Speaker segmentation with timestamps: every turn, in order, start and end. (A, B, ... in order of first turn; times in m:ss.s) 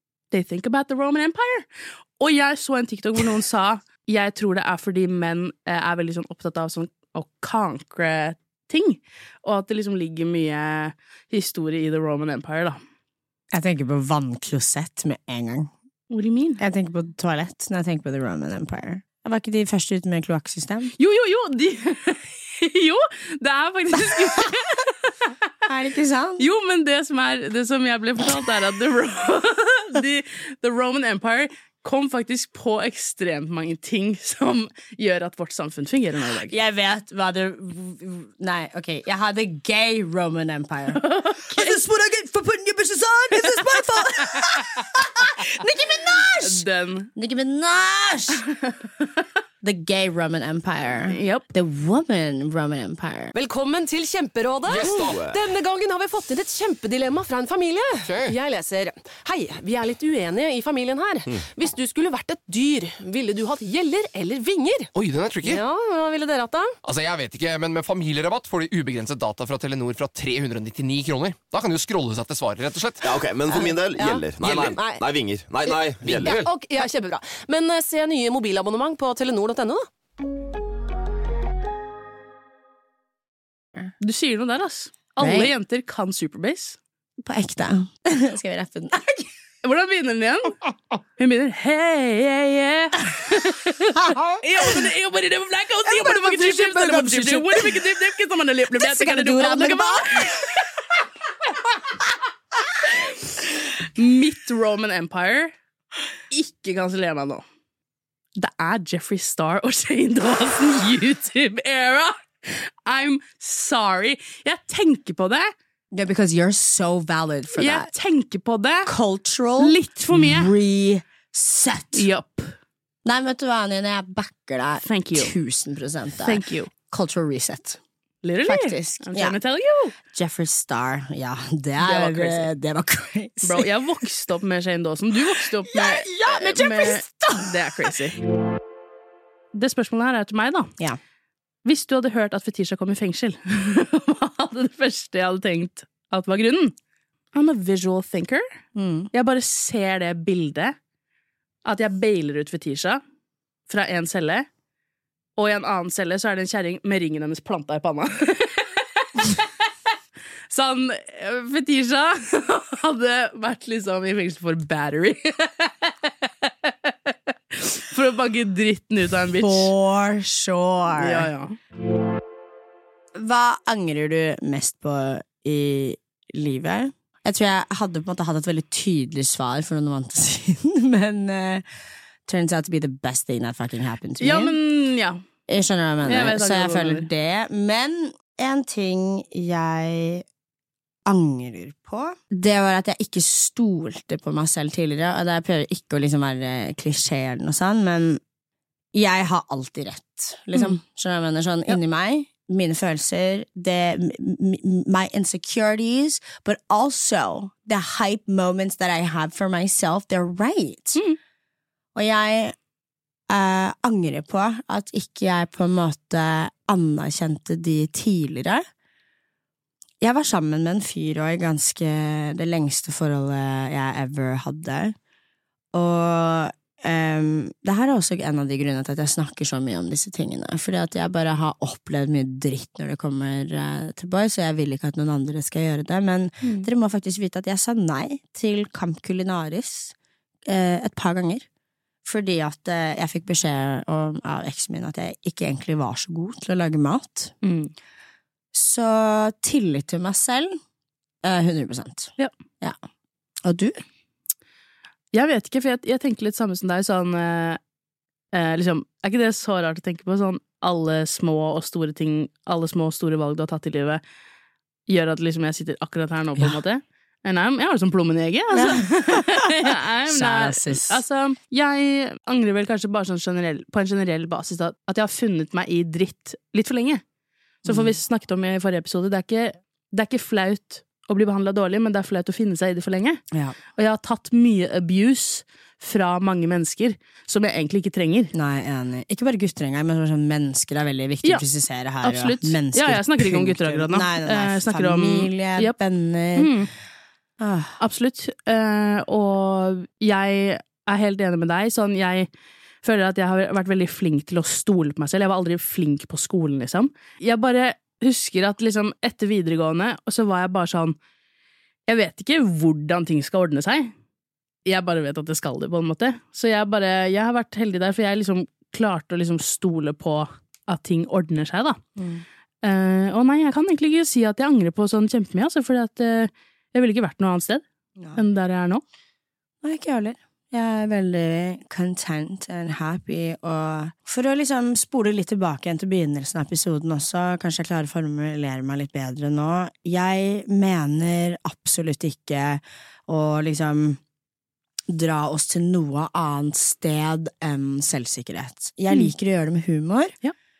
0:00.3-0:12.8 A
0:13.5-0:15.7 B
0:16.1-0:16.6 A
0:16.6-0:20.9 B
0:21.0-0:25.3 A
0:24.0-0:24.5 B
0:25.6-0:26.4 B
0:26.4-0:36.5 A
0:36.4-0:48.4 B
0:40.9-0:41.8 A
0:43.4-0:44.8 A
0:46.4-0:47.1 A
0:49.6-0:53.3 B
0:51.0-0:51.5 A
0:53.3-1:04.9 C
0:54.6-0:55.2 D
0:54.8-0:55.4 E
0:58.0-0:58.4 D
1:04.9-1:05.6 D
1:05.4-1:06.8 C
1:06.8-1:13.1 D
1:13.0-1:16.4 E
1:13.5-1:15.0 C
1:15.6-1:19.9 C
1:16.0-1:16.4 D
1:24.0-1:26.8 A
1:25.2-1:25.5 B
1:27.2-1:29.3 B
1:29.6-1:30.6 A
1:31.2-1:40.6 A
1:33.9-1:34.8 B
1:35.8-1:37.9 B
1:38.7-1:40.6 B
1:43.8-1:45.5 A
1:46.3-1:47.4 A
1:48.4-1:55.5 A
1:55.9-1:57.9 B
1:57.5-1:58.9 A
1:58.8-2:02.1 B
1:59.6-2:00.5 A
2:01.9-2:02.6 A
2:03.0-2:07.8 B
2:04.8-2:05.3 A
2:06.2-2:06.7 A
2:08.2-2:10.0 A
2:08.4-2:09.4 B
2:10.1-2:13.7 B
2:11.8-2:12.5 A
2:13.4-2:18.2 A
2:15.4-2:17.7 B
2:19.5-2:20.7 A
2:21.6-2:26.7 A
2:27.3-2:28.5 A
2:28.7-2:29.1 B
2:29.1-2:30.8 A
2:31.6-2:33.0 A
2:33.7-2:34.5 A
2:35.4-2:39.7 A
2:40.5-2:49.7 A
2:49.3-2:51.3 B
2:51.0-2:51.6 A
2:53.1-3:01.6 B
3:02.2-3:04.6 B
3:04.2-3:05.2 A
3:05.5-3:10.2 B
3:06.0-3:07.1 A
3:11.0-3:18.2 B
3:18.9-3:31.0 B
3:31.9-3:32.6 B
3:33.3-3:38.6 B
3:40.0-3:44.9 B
3:45.7-3:59.9 B
3:56.4-3:56.7 A
4:00.4-4:01.5 B
4:02.0-4:07.4 B
4:07.4-4:07.7 A
4:08.5-4:10.6 B
4:11.2-4:12.8 B
4:13.4-4:13.8 B
4:15.1-4:17.6 A
4:18.3-4:24.0 A
4:24.9-4:37.0 A
4:28.5-4:31.0 B
4:37.6-4:37.9 B
4:37.6-4:43.2 A
4:43.7-4:48.3 A
4:48.3-4:56.6 B
4:52.0-4:55.8 A
4:56.4-4:56.7 A
4:57.4-4:57.8 B
4:57.8-5:02.3 A
5:02.8-5:11.0 A
5:11.9-5:13.9 A
5:14.6-5:21.8 A
5:22.0-5:22.2 B
5:22.6-5:27.6 A
5:28.1-5:28.8 A
5:29.6-5:44.0 B
5:44.9-5:50.2 B